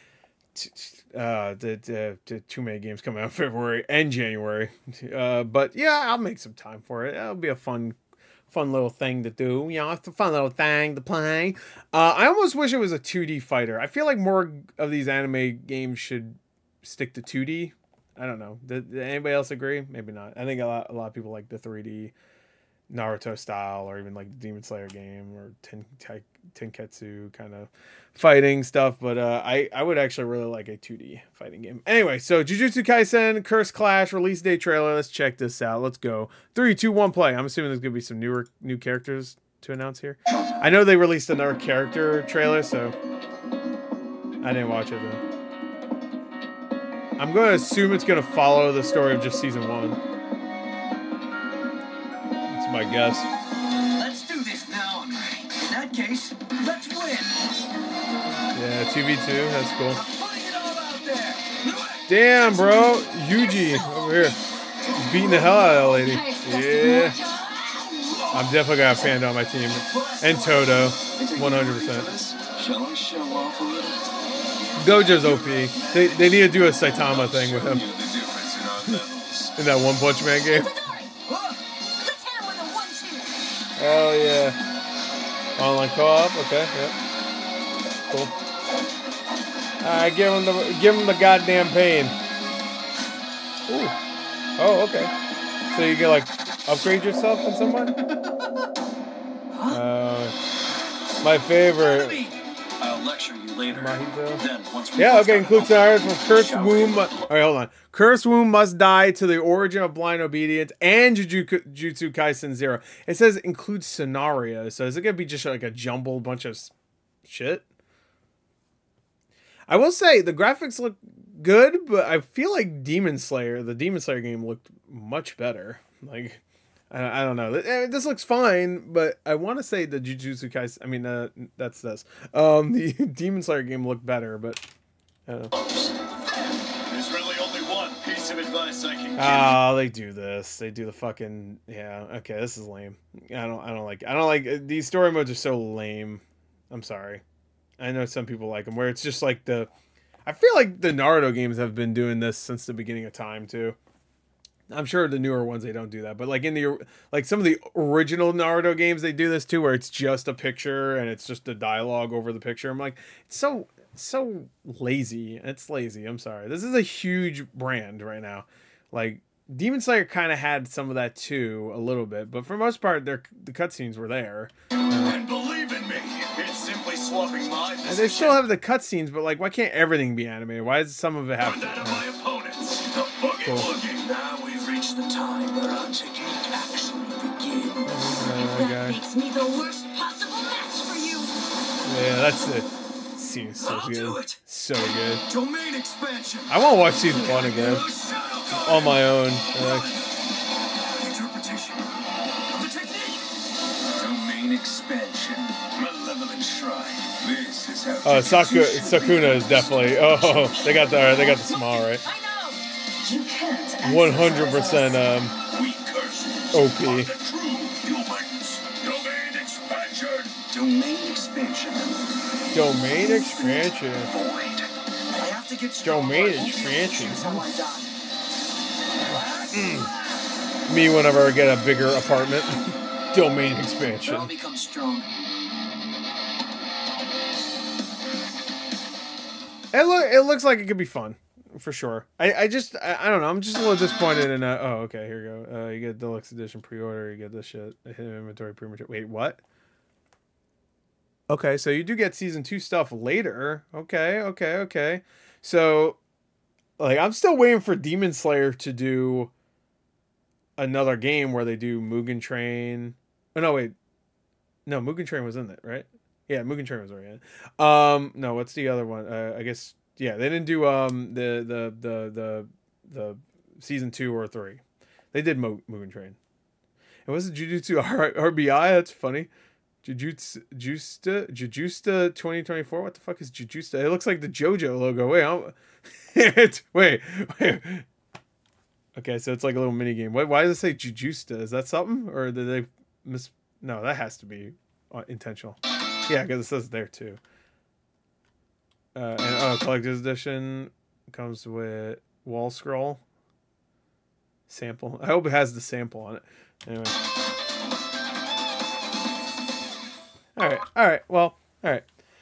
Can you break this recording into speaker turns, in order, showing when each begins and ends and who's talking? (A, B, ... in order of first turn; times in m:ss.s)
0:00.6-0:08.0 A
0:08.5-0:22.1 A
0:22.9-0:42.9 A
0:44.4-0:45.2 A
0:47.2-0:50.0 A
0:52.5-0:53.3 A
0:54.0-0:57.4 B
0:58.5-1:00.0 A
0:59.9-1:02.7 B
1:02.1-1:04.4 A
1:04.9-1:07.2 A
1:05.8-1:07.8 C
1:07.9-1:08.1 B
1:08.3-1:12.1 A
1:09.9-1:14.1 B
1:14.8-1:17.9 A
1:15.1-1:19.6 B
1:19.6-1:20.8 A
1:20.5-1:21.4 C
1:22.0-1:23.3 C
1:23.8-1:24.6 A
1:25.6-1:27.0 A
1:29.8-1:32.2 A
1:33.7-1:34.0 A
1:34.6-1:35.1 A
1:35.7-1:38.0 A
1:39.6-1:40.4 A
1:41.2-1:42.3 A
1:42.0-1:47.2 B
1:43.7-1:44.4 A
1:45.0-1:56.7 A
1:57.2-1:57.6 A
1:59.7-2:14.6 A
2:15.3-2:15.6 A
2:15.6-2:15.9 B
2:16.5-2:19.6 B
2:19.2-2:27.2 A
2:27.8-2:29.7 A
2:30.3-2:33.8 A
2:34.7-2:55.2 A
2:55.0-2:58.4 B
2:57.8-3:02.1 A
3:01.4-3:07.9 B
3:03.4-3:03.7 A
3:07.9-3:09.0 A
3:08.2-3:11.3 C
3:11.8-3:15.2 A
3:13.6-3:14.4 B
3:15.3-3:16.6 B
3:16.5-3:17.8 A
3:17.3-3:19.0 B
3:18.5-3:20.0 A
3:19.6-3:20.1 B
3:21.0-3:21.9 B
3:22.5-3:23.2 B
3:24.0-3:30.5 B
3:28.0-3:32.1 A
3:30.3-3:35.0 C
3:33.8-3:35.4 A
3:35.5-3:42.0 B
3:36.5-3:37.1 A
3:42.5-3:44.1 A
3:43.3-3:48.0 B
3:45.8-3:47.5 A
3:49.1-3:49.8 B
3:49.1-3:49.9 A
3:50.7-3:54.3 A
3:54.0-3:55.1 B
3:59.7-4:09.4 A
4:11.3-4:16.0 A
4:16.8-4:19.3 A
4:20.6-4:23.7 A
4:24.7-4:34.6 A
4:35.1-4:36.2 A
4:37.1-4:39.3 A
4:39.8-4:47.9 A
4:49.0-4:57.2 A
4:59.0-5:03.0 A
5:04.5-5:07.0 A
5:10.4-5:11.9 A